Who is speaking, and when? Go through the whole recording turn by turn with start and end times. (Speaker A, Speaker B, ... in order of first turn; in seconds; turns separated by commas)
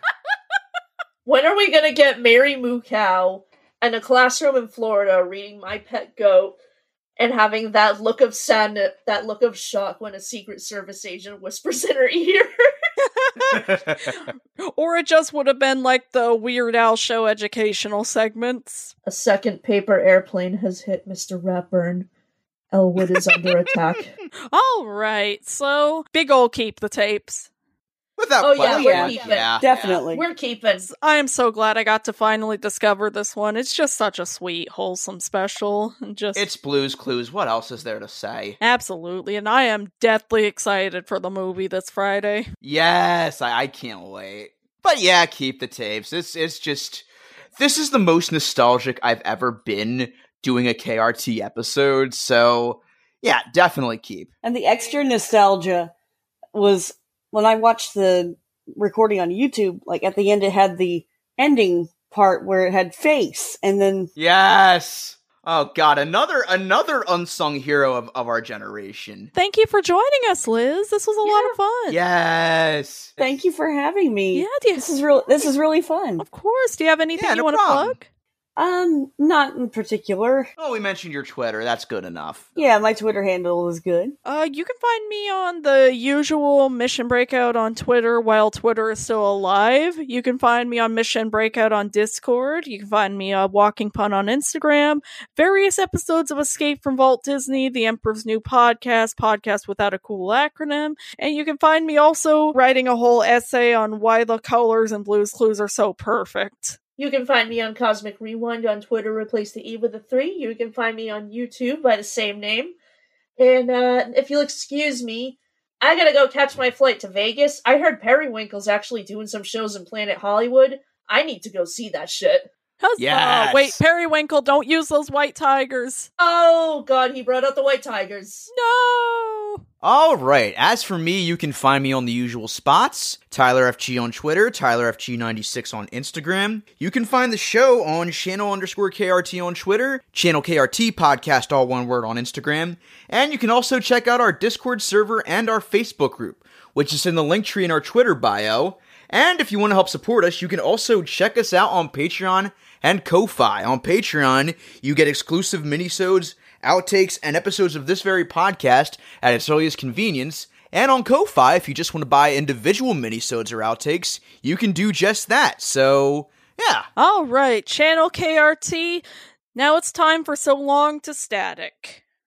Speaker A: 1.2-6.6, Speaker A: 7.2-12.5, Speaker B: 13.0-18.9, Speaker C: 13.5-14.1, Speaker A: 19.1-22.1, Speaker A: 22.7-24.1, Speaker B: 24.5-27.5, Speaker C: 28.2-30.0, Speaker A: 28.4-30.9, Speaker D: 28.6-30.2, Speaker B: 30.8-36.5, Speaker C: 36.4-38.6, Speaker B: 38.6-42.5, Speaker C: 42.6-54.3, Speaker D: 54.4-55.9, Speaker D: 56.5-64.1, Speaker C: 64.2-69.3, Speaker B: 69.3-72.0, Speaker A: 71.2-71.5, Speaker C: 71.9-73.2, Speaker D: 73.2-76.2, Speaker B: 74.3-75.5, Speaker B: 76.2-78.0, Speaker C: 77.1-78.0, Speaker D: 78.5-80.5, Speaker C: 80.6-82.5, Speaker D: 82.5-84.1, Speaker B: 84.2-106.8, Speaker A: 107.0-112.7, Speaker A: 113.4-122.5, Speaker B: 122.8-126.1, Speaker C: 123.0-123.8, Speaker A: 126.2-128.5, Speaker B: 128.5-129.6, Speaker C: 129.8-166.9, Speaker B: 167.0-169.0, Speaker B: 169.5-172.0